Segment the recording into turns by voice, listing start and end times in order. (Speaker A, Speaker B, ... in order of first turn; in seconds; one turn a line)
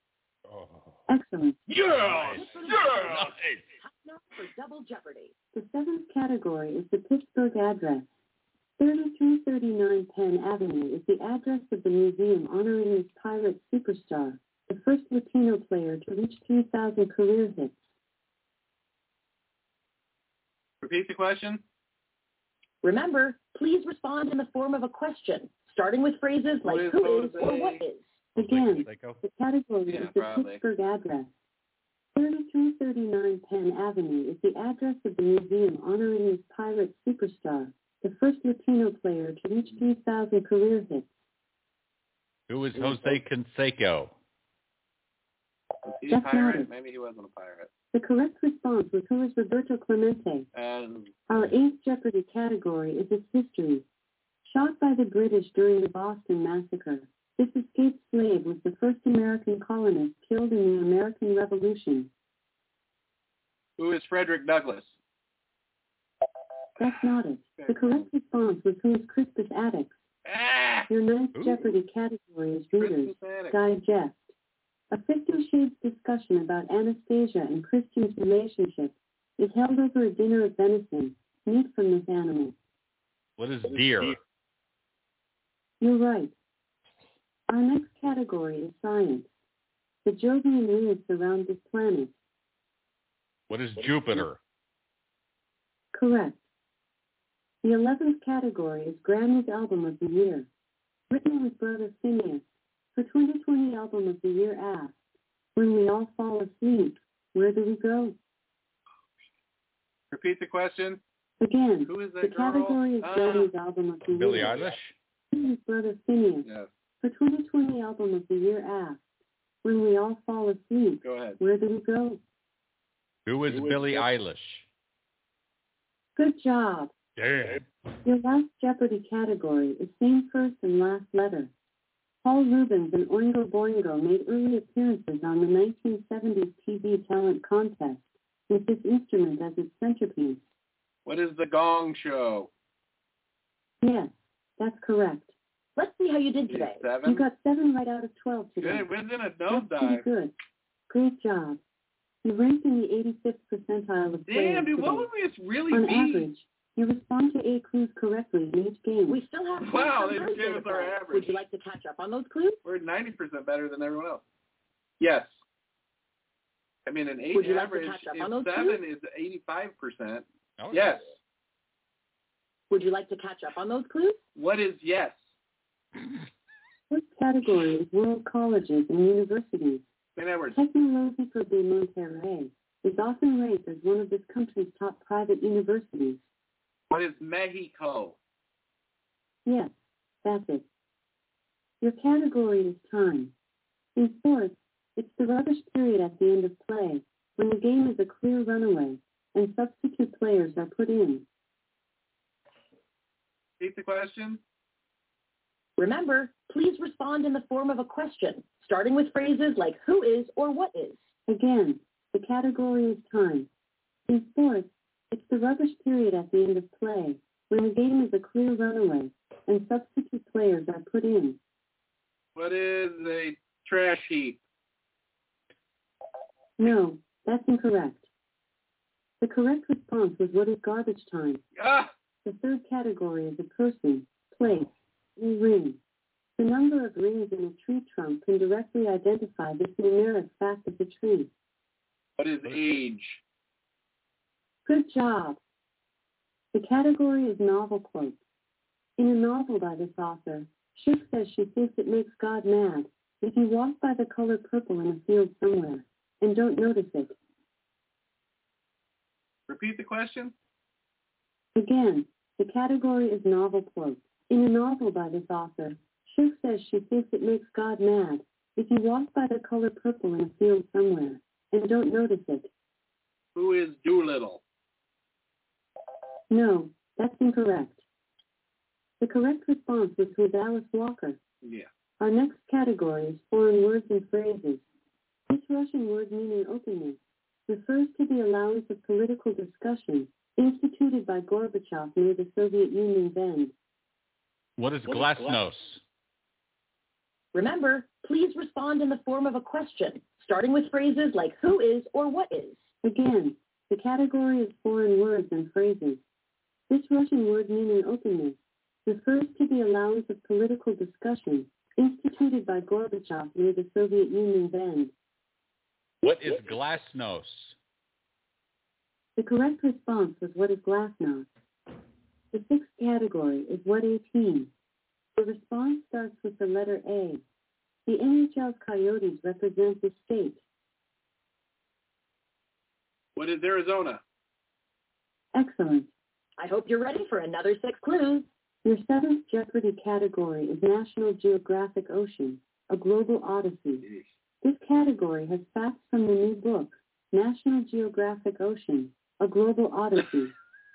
Speaker A: 0.5-1.0
Speaker B: 1.1-1.6
Speaker A: 1.7-3.7
Speaker C: 2.0-2.4
Speaker D: 2.3-5.3
Speaker B: 5.5-8.1
Speaker B: 8.8-17.8
Speaker C: 20.8-21.6
Speaker D: 22.8-28.3
Speaker C: 26.6-27.8
Speaker A: 28.4-29.2
Speaker B: 28.4-31.3
Speaker C: 29.9-30.6
Speaker B: 32.1-41.1
Speaker A: 42.5-44.1
Speaker C: 42.8-43.2
Speaker C: 46.0-47.7
Speaker B: 46.0-46.7
Speaker B: 47.9-50.5
Speaker C: 50.5-51.1
Speaker B: 51.3-53.8
Speaker B: 54.4-62.1
Speaker C: 63.8-64.9
Speaker B: 66.8-70.0
Speaker C: 67.5-68.1
Speaker C: 70.2-70.9
Speaker B: 70.9-74.3
Speaker A: 71.3-71.7
Speaker C: 72.7-73.6
Speaker B: 74.9-82.5
Speaker A: 83.4-84.2
Speaker B: 85.8-86.3
Speaker B: 87.5-89.3
Speaker B: 90.0-92.1
Speaker A: 93.5-94.4
Speaker B: 95.9-96.4
Speaker B: 97.6-100.5
Speaker B: 101.1-105.0
Speaker B: 105.5-108.2
Speaker C: 110.1-111.0
Speaker B: 111.4-114.6
Speaker C: 111.8-113.5
Speaker A: 114.0-114.9
Speaker B: 115.3-116.5
Speaker C: 116.4-116.7
Speaker B: 117.0-119.0
Speaker B: 119.6-122.2
Speaker C: 121.0-121.4
Speaker A: 123.2-124.6
Speaker C: 123.5-124.0
Speaker B: 126.2-126.9
Speaker A: 127.2-127.7
Speaker B: 128.0-131.5
Speaker B: 132.2-140.4
Speaker C: 141.1-142.5
Speaker B: 143.8-145.3
Speaker D: 145.8-146.9
Speaker C: 146.5-147.2
Speaker B: 147.0-148.9
Speaker C: 148.6-150.1
Speaker B: 149.5-150.3
Speaker B: 150.9-151.6
Speaker B: 152.2-155.1
Speaker C: 154.3-156.3
Speaker B: 155.7-159.2
Speaker D: 159.1-162.6
Speaker C: 159.6-161.4
Speaker C: 162.6-164.2
Speaker C: 165.0-165.4
Speaker C: 166.8-171.1
Speaker D: 167.3-168.8
Speaker A: 170.6-171.1
Speaker D: 172.7-174.2
Speaker C: 174.3-175.2
Speaker B: 176.9-179.8
Speaker C: 180.2-180.6
Speaker B: 180.5-186.2
Speaker C: 186.9-188.2
Speaker B: 189.4-190.6
Speaker B: 191.8-193.3
Speaker B: 193.9-201.2
Speaker C: 203.6-204.4
Speaker D: 205.8-211.1
Speaker B: 211.3-213.5
Speaker B: 214.1-221.4
Speaker C: 222.3-224.4
Speaker B: 226.6-228.1
Speaker B: 229.2-231.4
Speaker C: 231.6-231.9
Speaker B: 232.2-235.8
Speaker B: 236.4-241.3
Speaker C: 242.2-243.2
Speaker B: 244.7-245.4
Speaker B: 246.5-248.2
Speaker B: 249.0-257.1
Speaker C: 259.5-260.3
Speaker B: 261.5-272.5
Speaker C: 273.3-274.4
Speaker B: 276.3-277.8
Speaker B: 279.0-281.2
Speaker C: 281.4-281.7
Speaker B: 282.0-284.6
Speaker B: 285.3-293.5
Speaker A: 294.6-295.8
Speaker D: 297.3-302.7
Speaker B: 302.8-306.0
Speaker B: 306.7-314.9
Speaker A: 316.0-317.5
Speaker B: 319.1-321.3
Speaker B: 322.3-324.5
Speaker B: 325.1-327.2
Speaker B: 327.9-330.4
Speaker C: 333.1-334.0
Speaker B: 335.3-335.9
Speaker D: 336.4-338.3
Speaker B: 338.6-343.8
Speaker C: 343.8-344.1
Speaker B: 344.4-350.3